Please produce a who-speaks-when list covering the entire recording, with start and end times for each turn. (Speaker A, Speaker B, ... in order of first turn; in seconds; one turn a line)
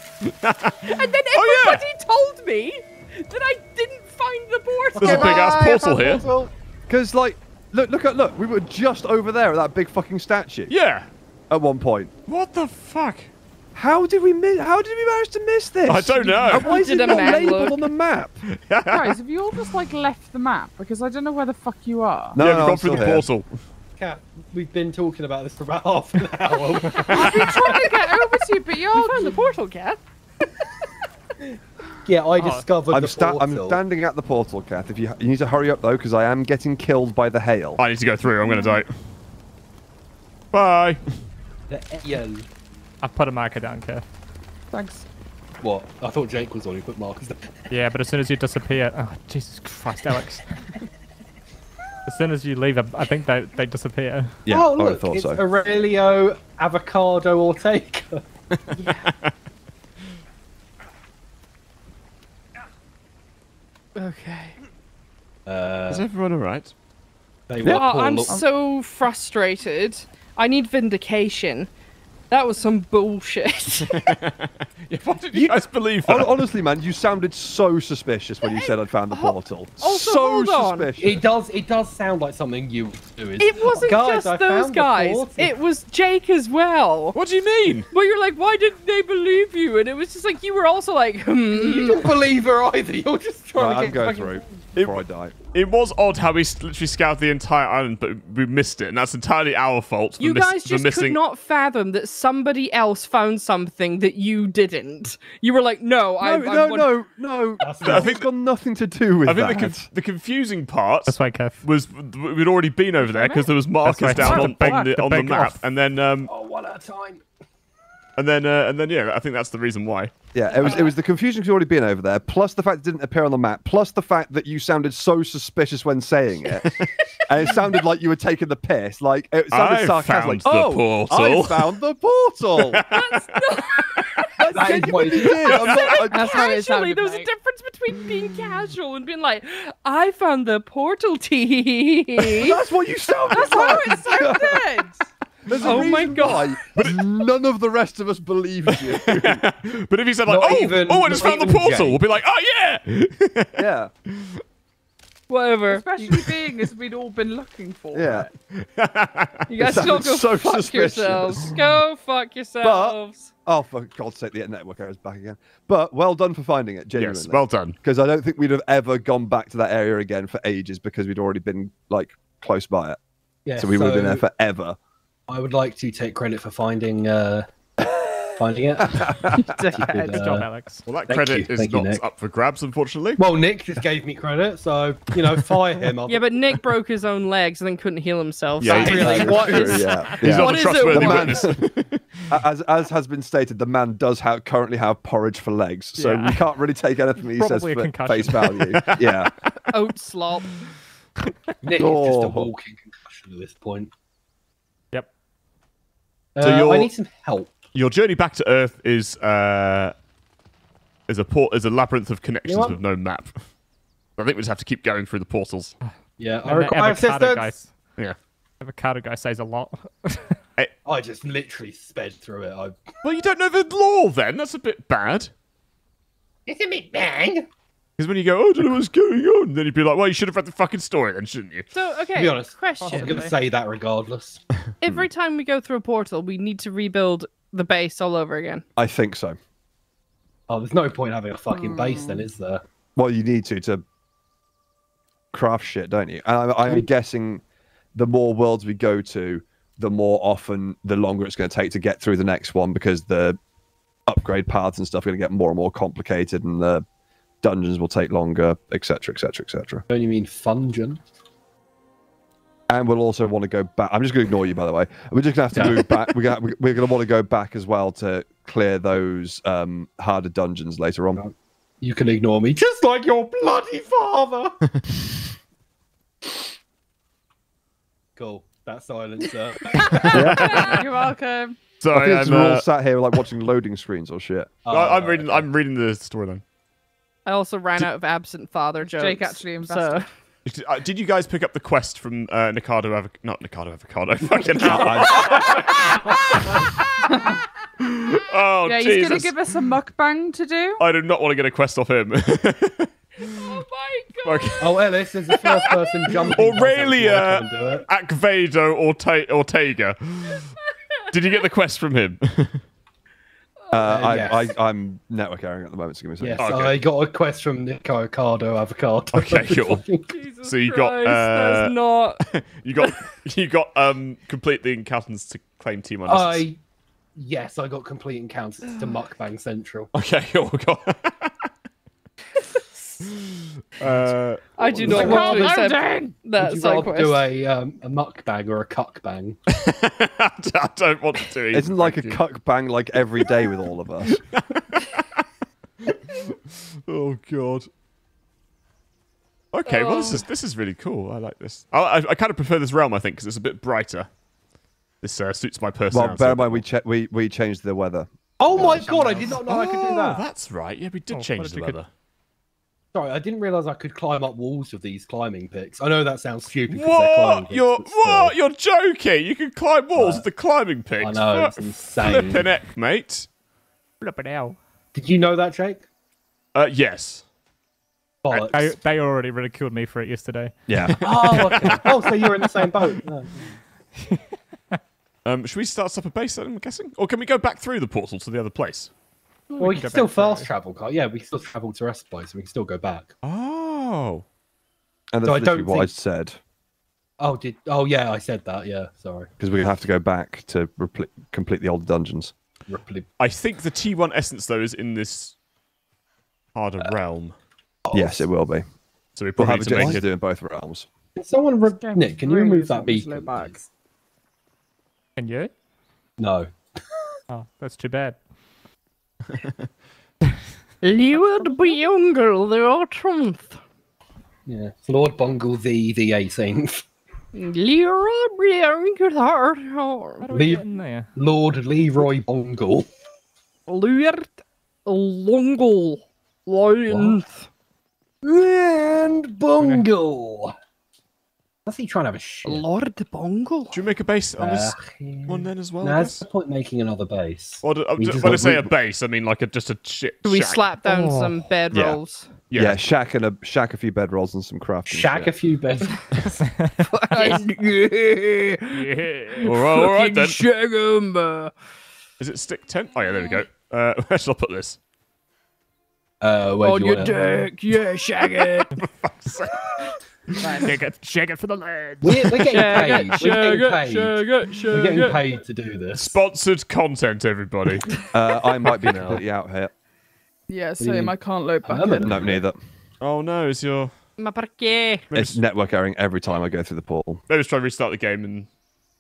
Speaker A: 0.2-1.9
Speaker B: 0.8-6.3
Speaker C: 5.0-6.5
Speaker A: 5.0-6.3
Speaker D: 6.9-10.7
Speaker A: 10.7-11.1
Speaker D: 11.5-12.1
Speaker A: 12.3-13.3
Speaker D: 13.8-18.4
Speaker A: 15.9-16.8
Speaker B: 16.7-17.8
Speaker A: 18.5-19.2
Speaker E: 18.9-22.4
Speaker D: 22.3-23.3
Speaker A: 22.4-23.5
Speaker C: 24.0-27.5
Speaker B: 27.0-30.0
Speaker E: 27.1-29.4
Speaker C: 32.1-33.8
Speaker F: 32.4-32.7
Speaker D: 32.9-37.8
Speaker A: 37.8-39.0
Speaker A: 40.5-41.2
Speaker C: 41.7-42.5
Speaker F: 43.0-44.0
Speaker E: 44.7-45.1
Speaker C: 45.6-47.7
Speaker F: 47.7-50.6
Speaker F: 52.1-54.4
Speaker D: 54.5-55.4
Speaker C: 54.5-58.2
Speaker A: 58.5-59.3
Speaker B: 64.0-64.6
Speaker C: 65.5-66.1
Speaker A: 65.9-66.7
Speaker C: 67.5-68.4
Speaker B: 67.7-71.7
Speaker B: 72.3-74.1
Speaker A: 73.9-76.4
Speaker D: 75.3-81.2
Speaker B: 79.1-80.9
Speaker C: 81.0-85.5
Speaker B: 83.4-87.2
Speaker A: 87.2-87.9
Speaker B: 87.9-92.1
Speaker C: 91.5-94.5
Speaker D: 93.6-95.3
Speaker A: 94.8-101.2
Speaker B: 100.2-106.9
Speaker D: 106.2-109.9
Speaker C: 107.6-108.2
Speaker A: 107.8-108.2
Speaker A: 109.2-116.3
Speaker F: 111.1-111.6
Speaker E: 113.0-113.5
Speaker F: 113.8-115.6
Speaker E: 114.1-114.8
Speaker C: 116.3-117.2
Speaker A: 118.2-120.1
Speaker D: 120.3-132.8
Speaker A: 129.5-131.7
Speaker A: 132.7-133.5
Speaker B: 132.9-142.6
Speaker D: 134.4-136.5
Speaker C: 134.5-135.7
Speaker E: 136.1-137.3
Speaker D: 142.3-144.7
Speaker E: 143.3-145.1
Speaker D: 145.5-149.4
Speaker B: 145.6-146.6
Speaker A: 146.8-147.0
Speaker A: 148.7-154.4
Speaker C: 150.3-152.0
Speaker D: 153.6-153.9
Speaker B: 155.3-156.0
Speaker E: 155.7-158.3
Speaker D: 157.9-158.3
Speaker A: 158.5-159.5
Speaker B: 159.5-163.3
Speaker D: 159.6-161.6
Speaker D: 162.6-173.0
Speaker A: 167.0-167.8
Speaker C: 173.5-174.2
Speaker D: 173.6-174.8
Speaker C: 175.3-180.5
Speaker D: 178.8-179.9
Speaker B: 179.4-180.3
Speaker F: 180.1-180.9
Speaker A: 180.9-183.2
Speaker C: 181.1-182.0
Speaker C: 183.2-186.3
Speaker B: 186.1-191.5
Speaker A: 188.6-192.0
Speaker C: 188.7-189.6
Speaker F: 188.9-190.4
Speaker D: 189.3-191.6
Speaker D: 192.3-199.3
Speaker F: 196.0-196.4
Speaker F: 197.3-199.0
Speaker B: 199.7-200.5
Speaker C: 201.6-203.9
Speaker D: 201.8-202.5
Speaker C: 206.3-207.6
Speaker A: 206.4-206.9
Speaker A: 207.7-209.9
Speaker A: 211.1-213.3
Speaker C: 212.5-212.8
Speaker A: 214.2-215.7
Speaker C: 216.2-217.5
Speaker F: 216.4-217.7
Speaker F: 218.6-220.4
Speaker C: 220.8-222.8
Speaker A: 223.0-225.3
Speaker C: 226.5-227.5
Speaker A: 228.0-231.7
Speaker B: 231.7-233.3
Speaker C: 232.2-234.4
Speaker E: 232.8-233.3
Speaker B: 234.8-238.6
Speaker D: 238.8-239.4
Speaker C: 240.5-242.6
Speaker E: 241.5-242.2
Speaker D: 243.0-243.8
Speaker D: 245.3-247.4
Speaker D: 247.9-253.4
Speaker D: 254.1-256.9
Speaker D: 257.4-259.8
Speaker C: 259.9-261.0
Speaker D: 262.7-271.2
Speaker C: 265.5-265.8
Speaker C: 271.2-274.5
Speaker C: 278.2-280.5
Speaker E: 279.9-281.6
Speaker A: 280.0-280.9
Speaker D: 280.1-280.7
Speaker A: 281.8-282.7
Speaker D: 281.9-284.5
Speaker C: 284.6-285.5
Speaker A: 284.7-286.4
Speaker B: 287.3-290.1
Speaker E: 288.8-290.1
Speaker A: 290.5-297.2
Speaker D: 294.6-295.5
Speaker B: 295.2-296.2
Speaker E: 297.1-297.4
Speaker A: 297.8-299.3
Speaker E: 298.7-300.8
Speaker A: 300.8-302.9
Speaker B: 303.2-304.9
Speaker A: 304.2-305.7
Speaker C: 304.6-307.9
Speaker A: 306.3-310.4
Speaker A: 311.1-312.6
Speaker B: 313.6-313.9
Speaker D: 313.7-316.7
Speaker C: 313.9-314.5
Speaker C: 316.2-320.2
Speaker A: 316.4-316.8
Speaker A: 319.1-319.8
Speaker B: 320.1-322.2
Speaker A: 320.4-326.5
Speaker B: 322.8-323.1
Speaker C: 326.1-326.6
Speaker C: 327.2-329.9
Speaker A: 329.9-331.3
Speaker A: 333.2-334.8
Speaker B: 334.6-337.3
Speaker D: 334.6-335.3
Speaker C: 334.8-335.6
Speaker E: 334.9-336.1
Speaker C: 336.4-339.4
Speaker A: 339.5-342.2
Speaker D: 341.5-344.2
Speaker A: 344.1-345.2
Speaker A: 345.9-347.7
Speaker A: 349.5-354.1
Speaker B: 349.7-350.3
Speaker A: 355.0-356.6
Speaker D: 355.9-359.3
Speaker C: 358.4-360.2
Speaker A: 359.3-361.9
Speaker F: 361.1-361.8
Speaker C: 362.9-368.3
Speaker A: 366.7-373.3
Speaker C: 370.0-370.2
Speaker C: 371.0-372.5
Speaker F: 374.0-374.6
Speaker C: 374.9-375.9
Speaker A: 376.6-377.2
Speaker C: 378.2-378.8
Speaker F: 378.5-380.5
Speaker D: 380.7-380.9
Speaker A: 380.9-382.3
Speaker C: 381.0-383.6
Speaker F: 384.0-384.8
Speaker A: 385.2-388.9
Speaker F: 389.5-390.5
Speaker C: 389.6-393.1
Speaker A: 393.2-394.2
Speaker D: 395.1-396.4
Speaker C: 395.2-395.9
Speaker C: 397.2-399.3
Speaker D: 399.4-402.3
Speaker C: 402.7-403.1
Speaker A: 403.2-405.4
Speaker A: 406.6-407.4
Speaker C: 407.9-408.3
Speaker D: 407.9-408.7
Speaker A: 409.2-410.1
Speaker D: 409.4-410.9
Speaker C: 409.7-410.0
Speaker C: 411.2-413.6
Speaker E: 411.7-413.6
Speaker F: 415.2-415.5
Speaker C: 416.2-416.5
Speaker F: 417.3-418.2
Speaker B: 420.8-423.6
Speaker C: 424.5-426.8
Speaker B: 427.3-430.3
Speaker F: 430.2-431.1
Speaker C: 430.3-430.6
Speaker C: 431.2-432.9
Speaker B: 433.7-434.3
Speaker B: 434.9-437.5
Speaker C: 436.9-437.2
Speaker C: 438.2-440.5
Speaker F: 439.6-439.9
Speaker C: 441.7-442.7
Speaker B: 442.4-443.8
Speaker A: 443.7-446.2
Speaker C: 444.4-448.7
Speaker A: 447.6-452.9
Speaker B: 450.2-452.3
Speaker D: 452.5-455.3
Speaker C: 454.9-456.4
Speaker B: 456.9-461.5
Speaker A: 459.4-460.5
Speaker A: 462.2-464.8
Speaker B: 463.1-463.4
Speaker C: 466.2-467.2
Speaker B: 466.6-468.8
Speaker A: 468.8-473.4
Speaker E: 470.4-470.8
Speaker C: 472.0-476.2
Speaker B: 472.5-475.2
Speaker A: 474.5-475.0
Speaker A: 476.0-477.9
Speaker D: 478.1-479.7
Speaker C: 478.8-479.2
Speaker E: 480.5-482.1
Speaker C: 480.8-481.1
Speaker C: 481.6-482.4
Speaker D: 482.0-482.6
Speaker A: 483.0-483.9
Speaker B: 484.2-485.1
Speaker A: 485.1-485.4
Speaker D: 485.1-487.2
Speaker A: 487.3-488.5